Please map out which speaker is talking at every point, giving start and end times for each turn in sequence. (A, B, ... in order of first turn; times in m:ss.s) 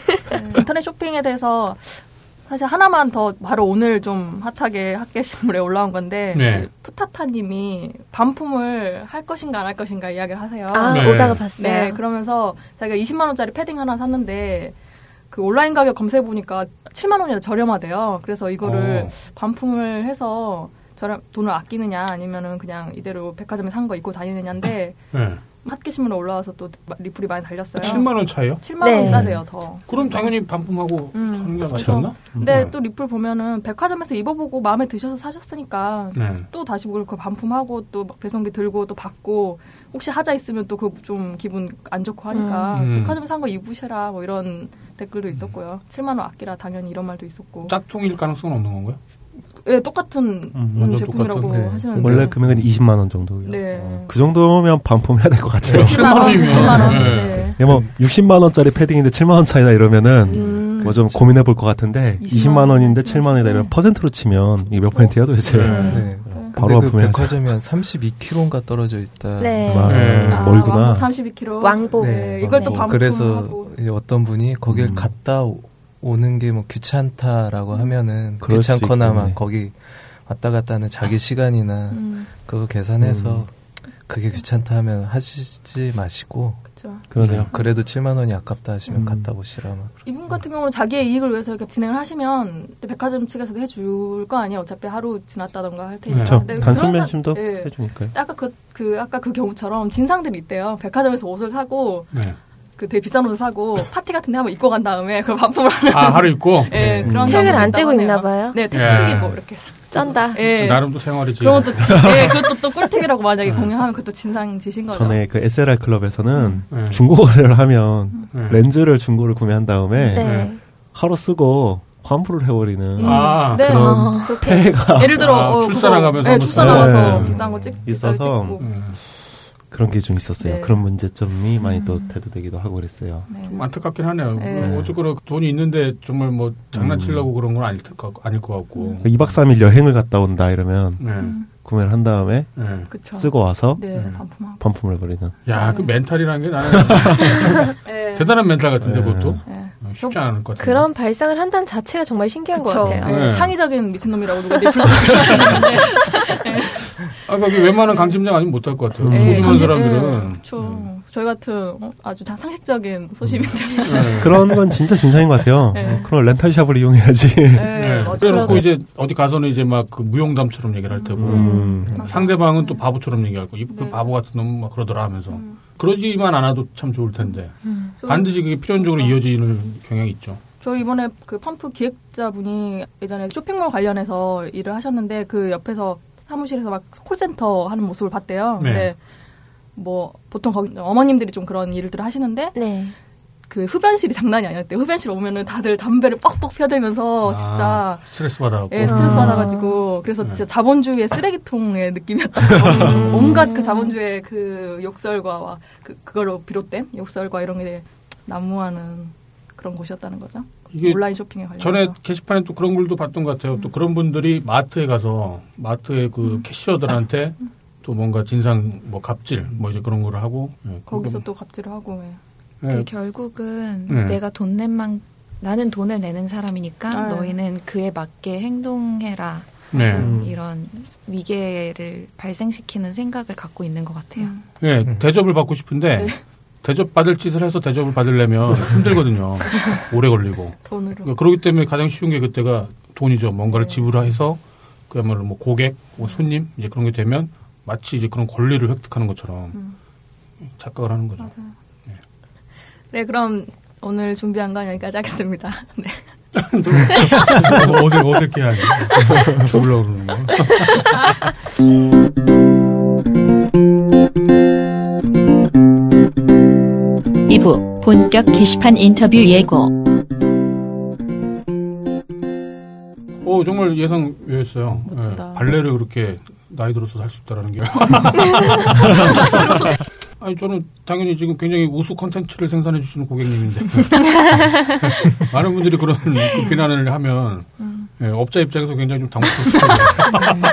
0:00.3-0:14.7 A
0:06.3-0:06.7 B
0:10.7-0:12.0 C
0:10.9-0:11.4 B
0:15.3-0:30.6 A
0:18.6-0:19.1 B
0:25.1-0:25.4 B
0:27.8-0:29.1 B
0:27.8-0:28.0 C
0:28.8-0:29.4 C
0:29.9-0:32.7 B
0:31.1-0:47.7 A
0:31.7-0:32.6 D
0:36.1-0:36.5 B
0:42.3-0:42.7 C
0:42.7-0:43.2 B
0:47.7-0:49.0 B
0:49.6-0:52.4 A
0:50.6-0:50.9 D
0:50.7-0:51.6 B
0:51.4-0:52.4 E
0:52.0-1:07.6 D
0:52.4-0:52.7 B
0:53.4-0:54.1 A
0:55.6-0:57.5 B
0:55.7-0:57.6 A
0:57.6-0:57.9 E
1:00.3-1:01.3 A
1:02.2-1:03.7 A
1:04.9-1:06.6 A
1:05.4-1:05.9 B
1:05.6-1:06.2 C
1:05.8-1:10.3 E
1:09.4-1:09.9 C
1:09.7-1:11.1 D
1:09.9-1:10.5 B
1:10.3-1:13.7 A
1:11.6-1:12.9 C
1:12.0-1:30.1 E
1:12.4-1:12.9 D
1:14.7-1:15.1 D
1:18.4-1:19.4 D
1:21.9-1:22.3 A
1:23.0-1:23.4 D
1:26.7-1:27.8 A
1:27.1-1:27.5 D
1:27.2-1:27.5 B
1:28.9-1:29.3 D
1:30.0-1:55.2 A
1:36.1-1:36.8 B
1:36.2-1:38.1 D
1:42.1-1:42.4 B
1:45.9-1:47.6 B
1:46.7-1:47.8 D
1:47.2-1:48.6 C
1:48.7-1:49.4 B
1:49.9-1:50.4 C
1:50.4-1:52.3 B
1:51.8-1:52.3 D
1:53.4-1:53.7 B
1:54.9-2:05.4 D
1:56.4-1:56.6 C
1:56.7-1:57.0 B
1:58.3-1:58.6 B
2:00.1-2:00.6 C
2:00.1-2:00.5 B
2:03.0-2:08.9 A
2:03.0-2:03.7 B
2:03.6-2:04.5 C
2:05.2-2:07.4 B
2:06.5-2:09.1 D
2:08.6-2:09.0 B
2:09.6-2:13.3 D
2:10.4-2:10.8 A
2:13.3-2:13.7 A
2:13.4-2:19.4 B
2:14.3-2:14.8 A
2:14.6-2:15.0 D
2:16.7-2:17.3 D
2:18.7-2:19.0 A
2:19.0-2:23.8 D
2:21.0-2:21.4 B
2:21.1-2:21.5 A
2:22.6-2:22.9 B
2:22.9-2:24.6 A
2:23.9-2:24.2 B
2:24.6-2:25.4 D
2:25.4-2:30.8 B
2:25.5-2:25.9 A
2:26.7-2:27.1 D
2:27.8-2:28.6 A
2:28.8-2:29.4 D
2:29.4-2:30.4 A
2:30.6-2:33.2 C
2:32.6-2:38.2 A
2:33.0-2:33.6 B
2:34.9-2:36.0 B
2:37.2-2:40.9 B
2:39.0-2:39.7 D
2:39.0-2:44.8 A
2:43.8-2:44.6 B
2:43.9-2:48.7 D
2:45.7-2:46.1 A
2:47.5-2:48.7 A
2:47.7-3:00.4 B
2:50.9-2:52.9 A
2:51.2-2:52.0 D
2:51.3-2:51.9 C
2:53.7-2:54.1 A
2:55.3-2:55.6 A
2:57.6-2:57.9 C
2:58.0-2:59.2 A
3:00.6-3:09.0 A
3:08.6-3:08.9 B
3:09.8-3:12.6 A
3:12.6-3:12.9 C
3:13.5-3:31.9 A
3:17.2-3:19.5 B
3:18.8-3:19.8 C
3:22.6-3:23.2 B
3:22.6-3:23.9 C
3:30.7-3:41.2 B
3:40.9-3:42.2 A
3:42.6-3:42.9 B
3:42.6-3:54.4 F
3:43.9-3:44.2 B
3:46.9-3:47.4 A
3:49.7-3:50.1 B
3:49.7-3:50.2 A
3:50.0-3:50.4 D
3:54.1-3:54.5 A
3:54.6-4:09.6 B
3:54.8-3:55.1 E
3:55.9-3:56.2 A
3:59.4-3:59.8 A
4:00.6-4:01.1 A
4:03.5-4:04.1 A
4:06.0-4:06.3 A
4:10.6-4:11.4 B
4:11.2-4:11.5 A
4:12.9-4:16.1 A
4:16.4-4:21.0 B
4:16.7-4:17.6 A
4:27.3-4:29.7 G
4:33.2-4:50.4 B
4:34.8-4:35.4 A
4:38.8-4:39.8 A
4:46.2-4:46.6 A
4:47.6-4:47.9 A
4:49.4-4:50.4 A